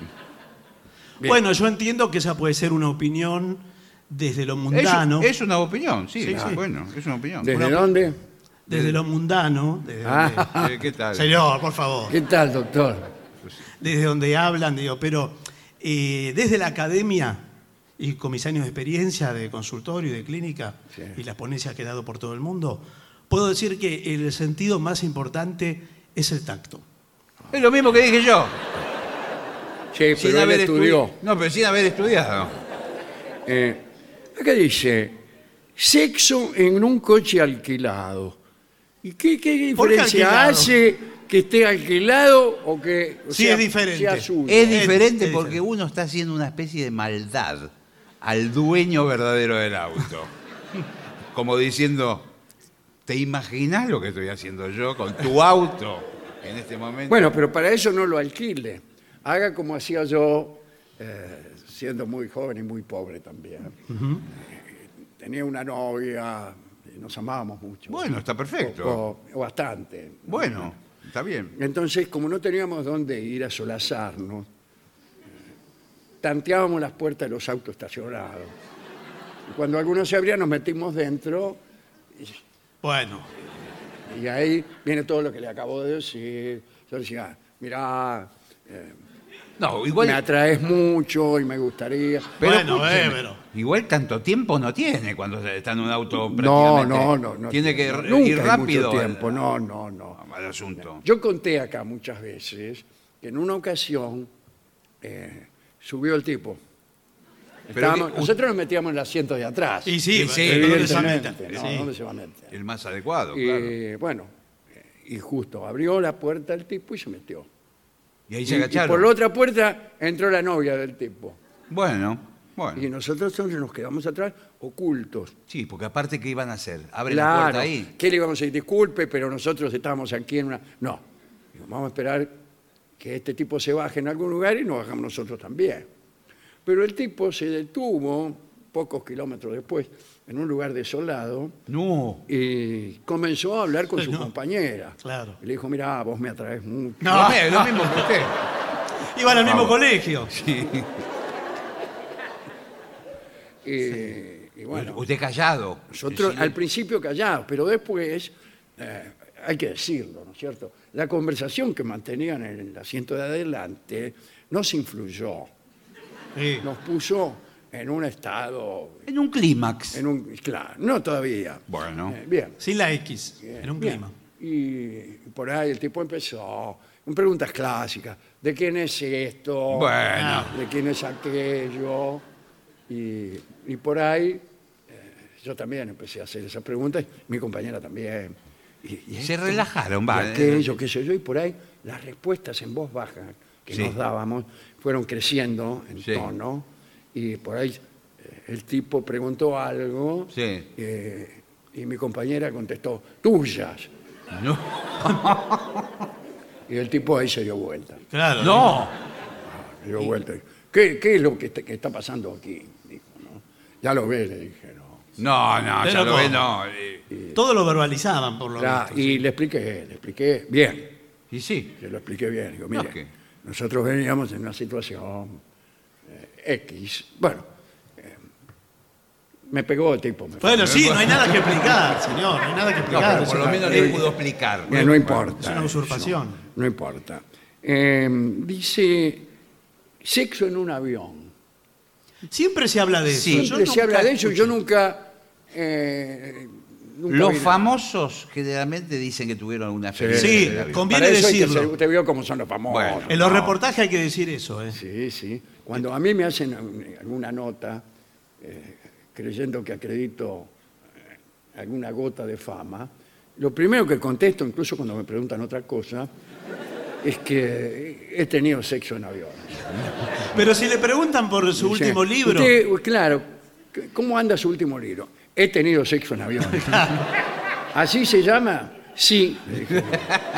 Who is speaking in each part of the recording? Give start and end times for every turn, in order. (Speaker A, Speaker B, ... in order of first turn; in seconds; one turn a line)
Speaker A: 1.2-5.3
Speaker B: 4.7-7.6
Speaker A: 6.2-6.6
Speaker C: 7.4-8.2
Speaker A: 7.5-7.9
Speaker A: 8.7-12.2
Speaker B: 8.7-9.0
Speaker C: 10.0-10.7
Speaker B: 10.5-11.3
Speaker C: 12.1-13.1
Speaker A: 13.8-17.5
Speaker A: 18.0-26.8
Speaker B: 27.5-28.7
Speaker C: 29.9-31.1
Speaker B: 30.2-32.5
Speaker C: 33.5-33.8
Speaker C: 34.4-35.2
Speaker C: 35.8-38.4
Speaker C: 39.0-44.9
Speaker A: 39.8-40.7
Speaker A: 43.3-45.6
Speaker B: 44.5-50.3
Speaker B: 51.3-52.3
Speaker B: 53.1-57.4
Speaker C: 57.1-70.8
Speaker A: 63.9-64.2
Speaker B: 67.9-69.0
Speaker B: 70.3-71.5
Speaker C: 71.5-74.5
Speaker C: 76.2-78.5
Speaker C: 79.5-81.6
Speaker A: 82.8-83.3
Speaker C: 84.1-89.0
Speaker B: 89.6-90.2
Speaker C: 90.0-92.5
Speaker B: 92.4-99.4
Speaker A: 92.4-93.4
Speaker C: 96.2-100.2
Speaker B: 100.2-101.0
Speaker C: 101.0-104.3
Speaker C: 105.0-106.6
Speaker C: 107.7-112.5
Speaker B: 107.7-108.3
Speaker A: 109.9-111.9
Speaker B: 110.1-111.3
Speaker B: 112.5-113.8
Speaker C: 113.3-114.3
Speaker C: 115.0-117.5
Speaker B: 118.3-119.1
Speaker C: 118.5-121.4
Speaker B: 121.7-122.8
Speaker C: 122.8-125.3
Speaker B: 125.5-127.9
Speaker C: 127.1-131.0
Speaker C: 131.5-132.4
Speaker C: 133.0-135.9
Speaker C: 136.7-141.6
Speaker B: 141.7-142.2
Speaker C: 142.3-147.4
Speaker A: 144.0-144.3
Speaker A: 145.0-145.4
Speaker A: 147.0-148.2
Speaker B: 147.1-148.4
Speaker A: 149.1-150.3
Speaker B: 149.3-151.0
Speaker C: 153.7-155.0
Speaker B: 154.7-156.6
Speaker C: 155.9-165.5
Speaker A: 166.4-166.7
Speaker C: 166.6-169.1
Speaker B: 169.1-170.0
Speaker C: 169.9-172.6
Speaker B: 171.7-172.2
Speaker A: 172.6-174.1
Speaker C: 173.4-182.2
Speaker B: 179.7-180.5
Speaker A: 180.1-180.5
Speaker C: 182.9-203.9
Speaker B: 189.2-190.8
Speaker B: 196.0-196.3
Speaker B: 200.3-200.7
Speaker B: 204.3-205.9
Speaker C: 206.7-208.0
Speaker A: 208.1-208.8
Speaker B: 208.4-208.9
Speaker C: 209.5-215.0
Speaker B: 215.2-217.0
Speaker A: 215.8-216.4
Speaker C: 217.1-217.4
Speaker A: 217.3-219.2
Speaker C: 218.6-220.9
Speaker B: 221.3-221.8
Speaker C: 221.8-225.4
Speaker B: 222.7-223.1
Speaker C: 226.1-227.5
Speaker C: 229.5-230.9
Speaker A: 230.4-234.0
Speaker B: 230.6-231.4
Speaker C: 232.9-234.1
Speaker B: 232.9-235.2
Speaker C: 234.7-239.3
Speaker A: 234.8-236.4
Speaker C: 240.0-241.3
Speaker A: 242.3-244.5
Speaker B: 243.1-243.6
Speaker C: 243.3-247.7
Speaker B: 247.1-250.9
Speaker C: 249.9-253.2
Speaker A: 250.1-251.7
Speaker B: 252.7-253.6
Speaker A: 253.1-254.8
Speaker C: 254.7-257.8
Speaker C: 258.4-260.5
Speaker C: 261.6-266.1
Speaker C: 267.0-269.7
Speaker A: 270.3-272.5
Speaker C: 271.6-277.0
Speaker A: 276.5-277.0
Speaker C: 277.7-280.1